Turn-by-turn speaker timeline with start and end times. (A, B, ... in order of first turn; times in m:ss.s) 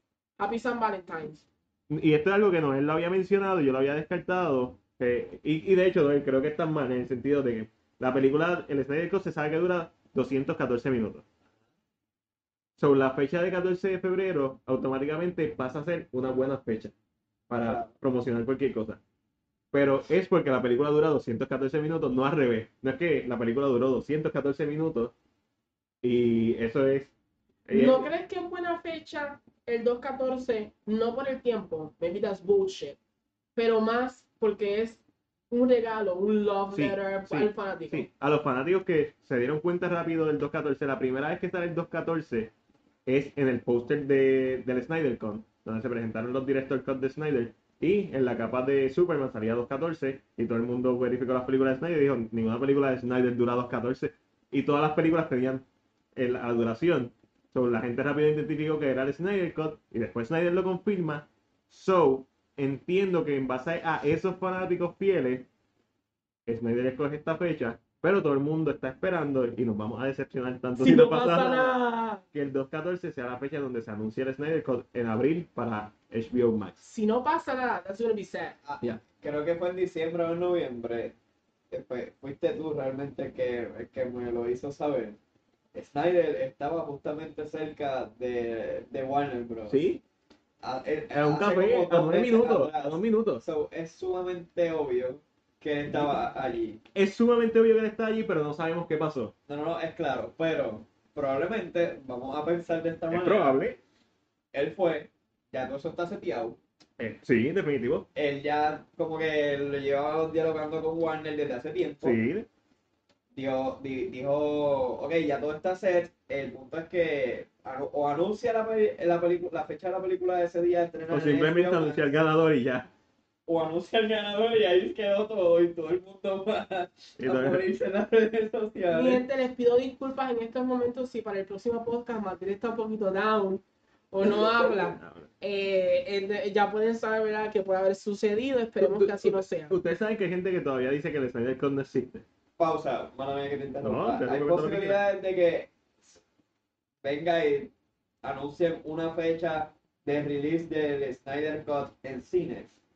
0:00.4-0:01.4 A
0:01.9-0:11.2 B
0:12.8-0:16.9 B
0:17.5-0:19.0 B
0:17.6-0:17.9 C
0:19.7-0:25.1 B
0:26.0-0:27.1 B
0:27.7-0:28.1 B
0:27.7-0:33.0 A
0:33.6-0:38.1 A
0:36.7-0:42.5 B
0:43.0-0:55.6 B
0:56.2-1:05.5 B
1:06.5-1:11.8 B
1:10.8-1:12.2 A
1:12.3-1:16.8 B
1:16.8-1:18.6 A
1:18.6-1:21.1 C
1:21.7-1:25.2 C
1:25.7-1:29.8 C
1:29.7-1:30.0 B
1:30.6-1:36.8 C
1:31.1-1:33.4 B
1:36.9-1:39.3 B
1:39.5-1:43.6 C
1:43.1-1:43.8 B
1:44.5-1:46.6 C
1:47.0-1:48.0 B
1:48.1-1:52.2 C
1:52.0-1:52.5 B
1:53.3-2:02.1 C
2:01.1-2:02.9 B
2:03.5-2:09.2 C
2:07.2-2:07.6 B
2:08.9-2:19.7 A
2:14.8-2:15.3 B
2:18.8-2:22.2 B
2:22.6-2:26.2 C
2:23.8-2:25.0 B
2:27.0-2:27.7 C
2:28.2-2:32.8 C